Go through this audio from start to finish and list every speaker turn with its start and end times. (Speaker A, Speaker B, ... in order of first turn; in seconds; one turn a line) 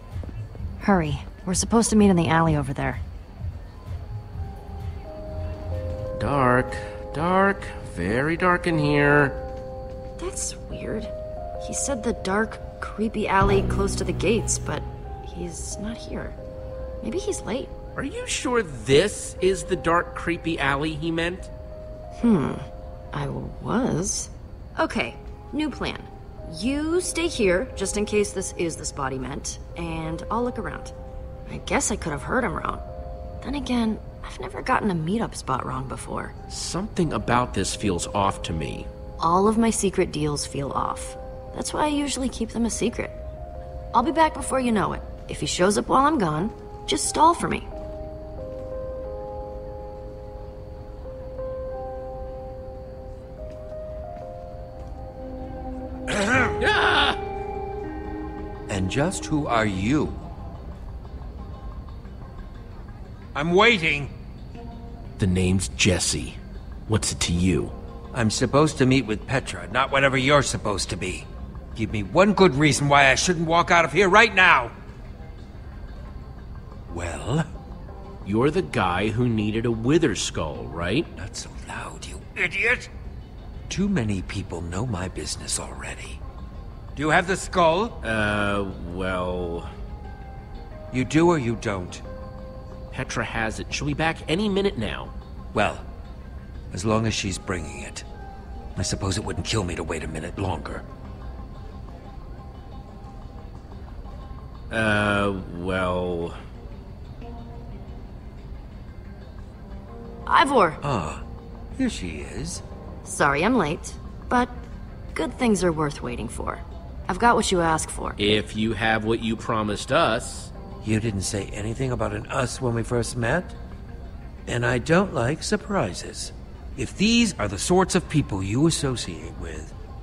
Speaker A: 0.8-3.0
Speaker B: 6.2-9.4
Speaker A: 10.2-16.4
Speaker A: 17.0-17.7
Speaker B: 18.0-21.5
Speaker A: 22.2-30.9
Speaker A: 31.5-32.8
Speaker A: 33.4-36.3
Speaker B: 36.5-38.9
Speaker A: 39.2-43.2
Speaker A: 43.9-47.7
Speaker B: 56.6-57.2
Speaker C: 58.7-60.2
Speaker C: 63.3-64.1
Speaker B: 65.2-67.7
Speaker C: 68.1-74.7
Speaker C: 76.9-77.5
Speaker B: 78.2-81.1
Speaker C: 81.2-82.9
Speaker C: 83.7-86.2
Speaker C: 87.0-88.0
Speaker B: 88.0-89.7
Speaker C: 90.9-92.0
Speaker B: 92.9-95.1
Speaker C: 95.5-95.8
Speaker C: 96.7-98.0
Speaker C: 98.8-100.8
Speaker B: 104.7-106.4
Speaker A: 110.3-110.8
Speaker C: 110.8-111.2
Speaker C: 111.8-112.6
Speaker A: 113.0-114.6
Speaker A: 115.1-118.2
Speaker B: 118.2-120.5
Speaker C: 120.8-123.5
Speaker C: 124.5-129.7